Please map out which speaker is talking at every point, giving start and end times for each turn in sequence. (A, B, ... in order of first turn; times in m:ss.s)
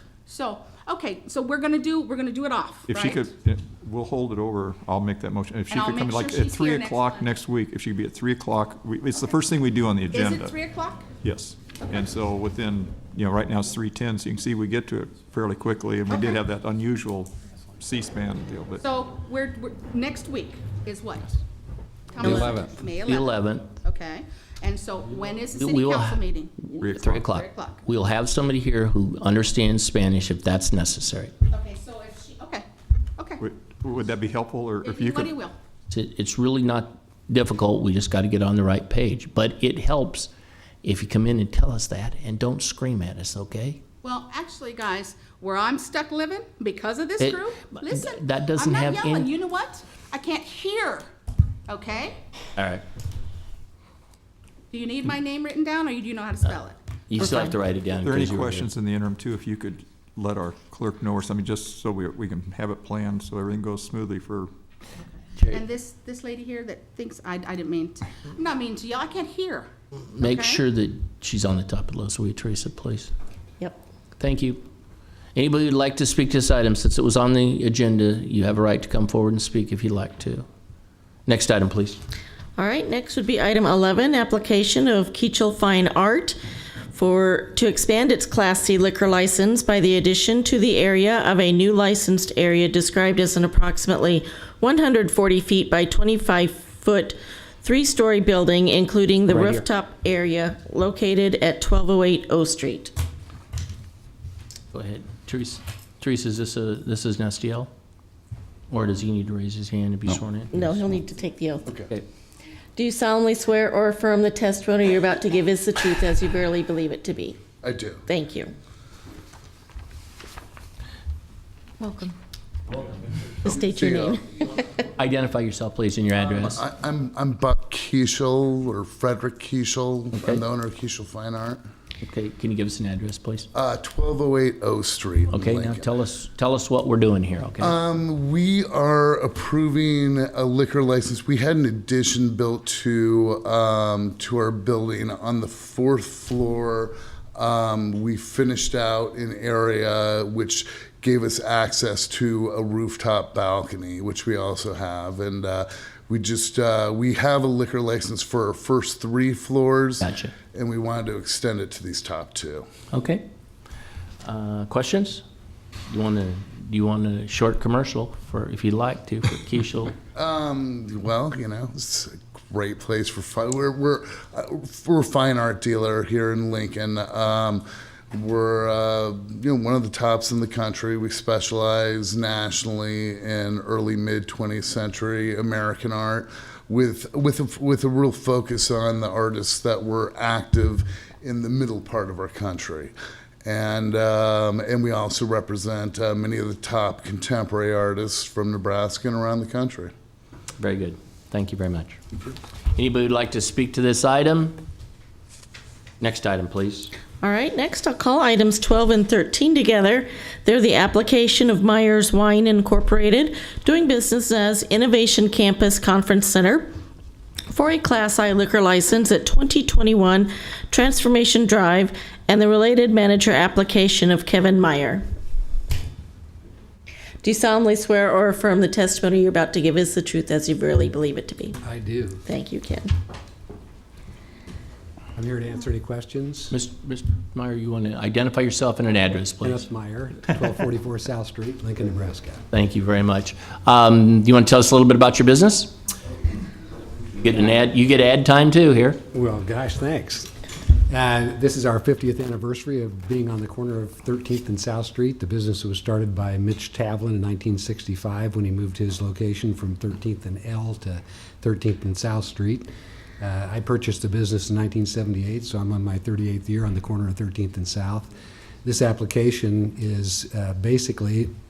0:00.2-0:03.3 A
0:02.9-0:10.6 B
0:05.7-0:07.3 A
0:10.1-0:11.1 A
0:11.2-0:18.8 B
0:16.1-0:16.4 A
0:18.8-0:21.3 A
0:22.1-0:27.8 A
0:22.2-0:22.6 C
0:22.2-0:22.7 D
0:23.1-0:23.7 C
0:25.5-0:31.3 C
0:26.8-0:27.2 B
0:31.5-0:32.6 A
0:33.2-0:33.4 A
0:33.4-0:35.3 B
0:34.8-0:35.5 A
0:35.9-0:40.3 C
0:40.8-0:43.8 C
0:44.0-0:51.1 A
0:47.2-0:49.3 C
0:51.7-0:52.2 A
0:52.6-0:52.8 C
0:54.7-0:56.8 A
0:57.1-0:58.7 C
0:57.3-1:04.5 B
1:05.4-1:05.6 C
1:05.5-1:10.6 A
1:10.1-1:13.1 C
1:14.2-1:14.6 C
1:15.3-1:20.4 C
1:21.2-1:22.0 C
1:22.6-1:26.4 E
1:26.9-1:42.9 E
1:39.3-1:39.6 D
1:44.7-1:47.7 C
1:48.7-1:51.0 C
1:50.5-1:51.7 E
1:52.8-1:57.4 E
1:57.6-1:58.0 F
1:58.1-1:58.5 E
2:01.8-2:02.2 E
2:03.4-2:04.3 E
2:03.8-2:04.2 F
2:05.0-2:06.6 C
2:06.1-2:11.6 F
2:10.1-2:10.4 C
2:12.0-2:13.5 C
2:13.5-2:15.9 F
2:15.3-2:17.8 C
2:17.6-2:42.6 F
2:40.0-2:40.3 C
2:42.9-2:43.2 C
2:44.2-2:45.2 C
2:45.9-2:49.9 C
2:50.1-3:12.9 F
3:13.4-3:19.9 F
3:20.6-3:22.0 C
3:22.7-3:24.6 C
3:26.0-3:26.9 C
3:27.2-3:36.7 E
3:37.5-3:45.0 E
3:47.2-3:51.6 E
3:51.6-3:52.2 D
3:52.2-3:52.9 E
3:55.1-3:56.6 D
3:56.5-3:59.7 C
3:59.4-4:02.4 D
4:02.5-4:05.7 C
4:07.2-4:09.0 C
4:09.1-4:10.3 D
4:10.9-4:22.7 D
4:23.2-4:28.1 D
4:28.6-4:31.3 D